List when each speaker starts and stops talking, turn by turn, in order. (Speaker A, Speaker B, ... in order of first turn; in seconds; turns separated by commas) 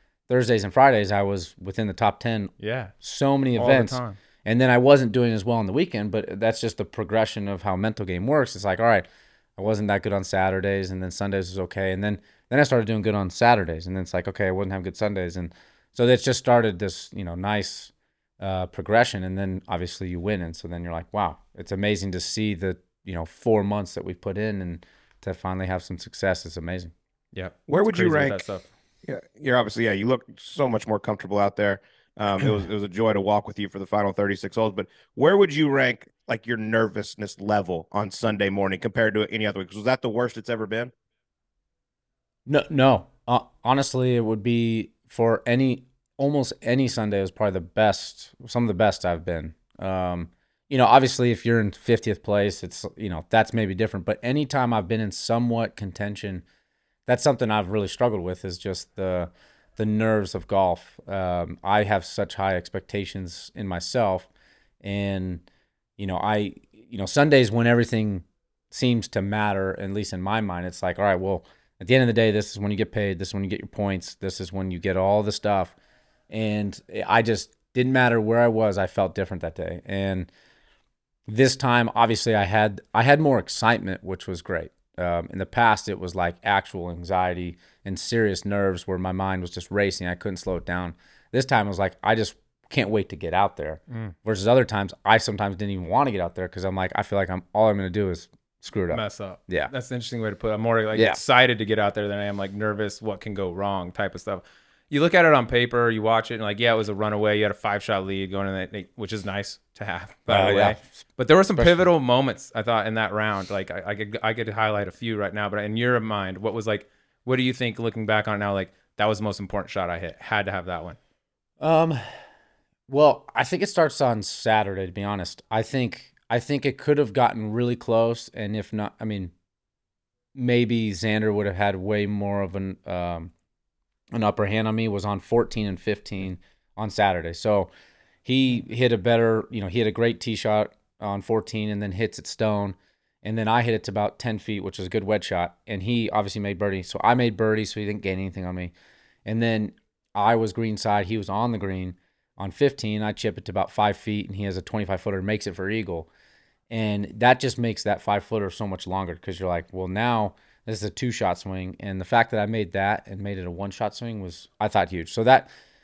Speaker A: 0.3-9.0, Speaker B: 2.6-2.9, Speaker B: 3.6-4.2, Speaker A: 9.6-26.9, Speaker B: 27.3-28.7, Speaker C: 27.7-28.4, Speaker C: 29.1-40.9, Speaker A: 42.5-56.4, Speaker A: 57.1-64.3, Speaker A: 64.8-65.5, Speaker A: 66.0-75.8, Speaker A: 76.3-80.3, Speaker A: 81.3-99.7, Speaker B: 98.9-121.0, Speaker A: 110.3-110.9, Speaker A: 111.6-111.9, Speaker A: 121.6-122.0, Speaker A: 122.9-129.3, Speaker A: 130.3-133.3, Speaker A: 134.1-137.7, Speaker A: 138.2-148.7, Speaker A: 149.3-156.1, Speaker A: 156.7-165.5